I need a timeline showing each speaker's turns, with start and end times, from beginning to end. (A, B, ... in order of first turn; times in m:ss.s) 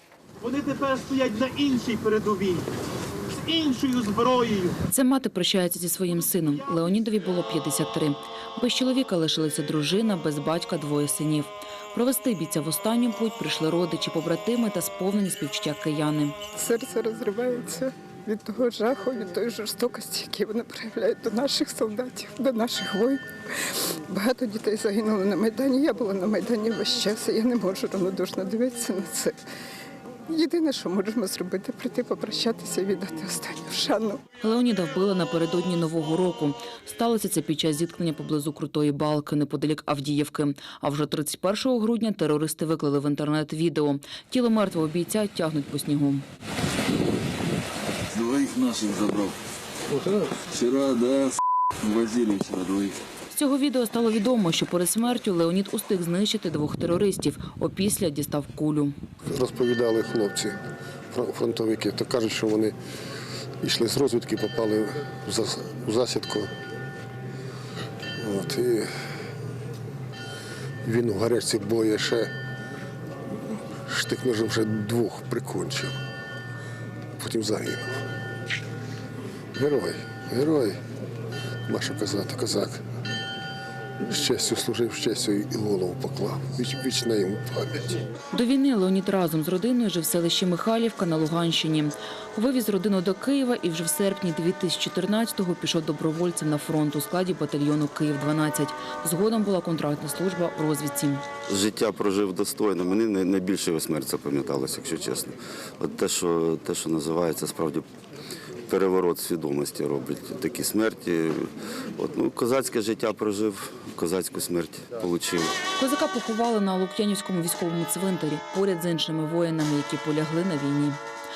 0:00.4-0:02.6 A
0:03.4-0:04.8 A
0:04.9-0:16.4 B
0:16.6-0:29.4 C
0:30.3-0:34.2 C
0:34.4-0:46.2 B
0:48.1-0:49.3 D
0:50.3-0:52.9 D
0:53.3-0:58.9 B
0:59.3-1:00.5 E
1:01.1-1:02.7 E
1:03.6-1:06.5 E
1:08.2-1:08.9 E
1:10.8-1:12.3 E
1:13.8-1:15.9 E
1:17.2-1:18.0 E
1:19.5-1:20.8 E
1:21.7-1:22.8 E
1:24.0-1:28.0 E
1:28.3-1:41.2 B
1:41.5-1:47.8 D
1:48.7-1:55.5 D
1:55.8-2:01.0 B